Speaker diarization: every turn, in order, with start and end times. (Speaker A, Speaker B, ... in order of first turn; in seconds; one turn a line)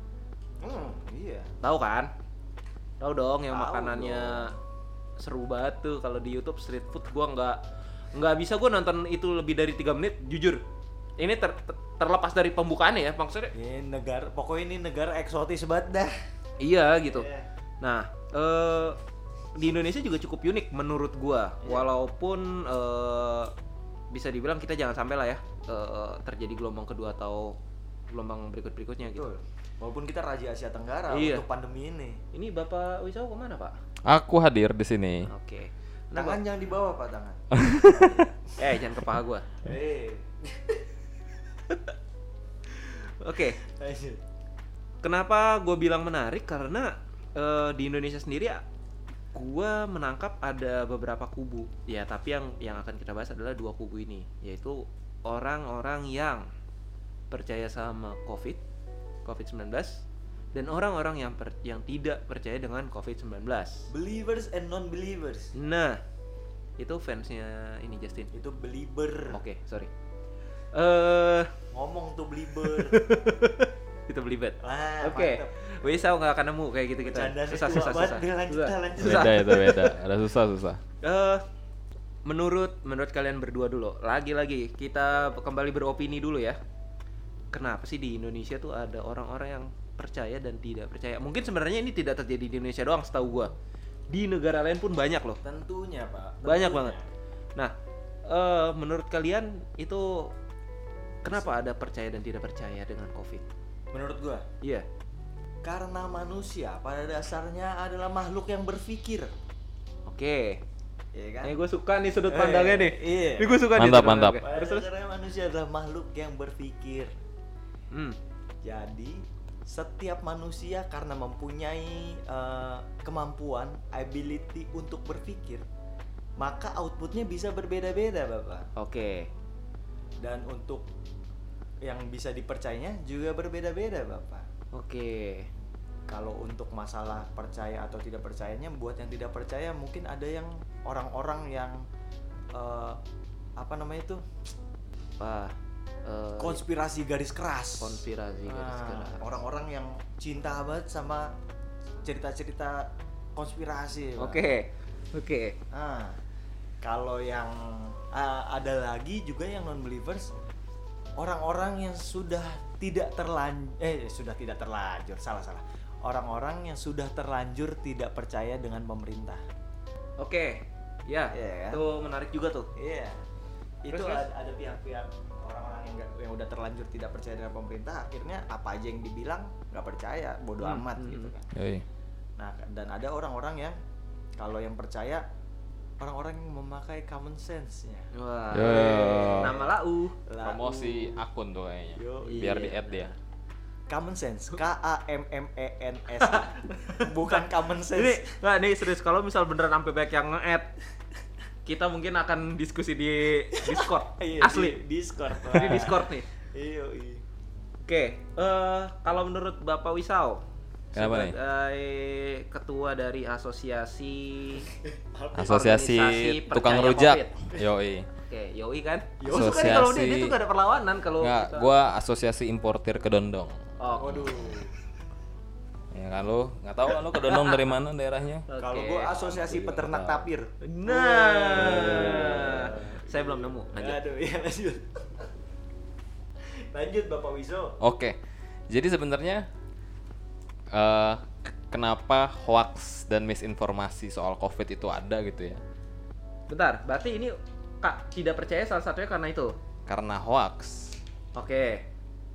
Speaker A: 0.6-1.5
Speaker B: 1.6-2.1
Speaker B: 3.0-4.5
Speaker A: 3.5-4.5
Speaker B: 5.2-7.6
Speaker B: 8.1-10.6
Speaker B: 11.2-13.5
Speaker A: 13.5-16.2
Speaker B: 16.6-17.3
Speaker A: 17.0-17.5
Speaker B: 17.8-19.0
Speaker B: 19.5-23.5
Speaker B: 24.1-27.6
Speaker B: 28.1-29.3
Speaker A: 29.1-32.2
Speaker B: 31.1-31.4
Speaker B: 32.3-33.8
Speaker C: 34.0-35.3
Speaker B: 35.2-36.4
Speaker A: 36.1-37.4
Speaker C: 37.5-38.3
Speaker A: 38.0-38.3
Speaker B: 38.5-39.5
Speaker A: 39.6-40.8
Speaker B: 42.7-43.6
Speaker A: 43.6-44.2
Speaker B: 45.0-48.6
Speaker B: 49.3-56.5
Speaker B: 57.3-58.6
Speaker B: 59.2-63.9
Speaker A: 63.9-65.5
Speaker B: 65.5-66.0
Speaker B: 66.8-68.3
Speaker A: 68.3-69.4
Speaker B: 69.3-69.9
Speaker B: 70.7-71.5
Speaker A: 71.7-73.5
Speaker B: 72.6-79.9
Speaker A: 74.6-75.7
Speaker A: 77.0-79.7
Speaker C: 79.0-80.8
Speaker B: 81.0-81.4
Speaker B: 82.2-86.6
Speaker B: 87.5-93.5
Speaker B: 94.1-95.4
Speaker A: 95.4-97.1
Speaker B: 96.4-97.0
Speaker B: 98.3-100.3
Speaker B: 101.2-103.5
Speaker A: 101.3-101.6
Speaker A: 103.9-104.5
Speaker A: 105.6-109.3
Speaker B: 110.0-110.6
Speaker A: 111.1-111.6
Speaker B: 111.4-114.9
Speaker A: 112.3-117.1
Speaker C: 113.7-114.4
Speaker B: 117.9-118.2
Speaker A: 118.6-125.7
Speaker A: 126.4-128.7
Speaker B: 128.8-129.3
Speaker A: 130.2-130.9
Speaker A: 131.8-134.4
Speaker B: 134.7-135.5
Speaker A: 136.1-141.8
Speaker A: 142.5-143.0
Speaker A: 143.6-144.3
Speaker B: 145.2-146.6
Speaker A: 146.4-151.3
Speaker B: 147.8-149.3
Speaker A: 152.0-154.4
Speaker B: 154.2-155.6
Speaker A: 155.7-156.2
Speaker A: 156.8-160.3
Speaker A: 161.2-169.4
Speaker B: 170.2-172.7
Speaker A: 171.3-171.8
Speaker A: 172.8-173.2
Speaker A: 173.8-181.5
Speaker B: 173.9-174.2
Speaker B: 180.6-181.3
Speaker C: 181.5-181.8
Speaker A: 182.4-183.8
Speaker A: 184.4-185.2
Speaker A: 186.0-189.7
Speaker B: 188.1-190.2
Speaker C: 188.5-189.6
Speaker A: 190.2-191.2
Speaker C: 190.4-193.1
Speaker A: 191.9-193.1
Speaker B: 192.2-192.8
Speaker A: 193.9-198.3
Speaker B: 196.2-200.7
Speaker B: 201.6-204.8
Speaker A: 203.7-207.2
Speaker B: 205.4-206.3
Speaker B: 207.8-210.4
Speaker B: 210.9-214.7
Speaker C: 210.9-211.4
Speaker A: 214.8-215.6
Speaker B: 215.3-217.3
Speaker C: 215.4-218.1
Speaker B: 218.2-221.7
Speaker A: 219.2-219.8
Speaker C: 219.3-220.3
Speaker C: 221.2-224.6
Speaker B: 223.8-224.2
Speaker A: 224.0-224.7
Speaker C: 225.9-228.5
Speaker B: 227.3-227.5
Speaker B: 228.5-229.1
Speaker A: 228.6-235.3
Speaker C: 229.0-230.3
Speaker B: 230.6-234.0
Speaker C: 231.7-231.9
Speaker A: 236.4-237.7
Speaker C: 237.8-238.2
Speaker C: 238.7-239.5
Speaker C: 240.7-245.6
Speaker B: 246.5-249.6
Speaker C: 249.9-251.0
Speaker B: 251.3-251.8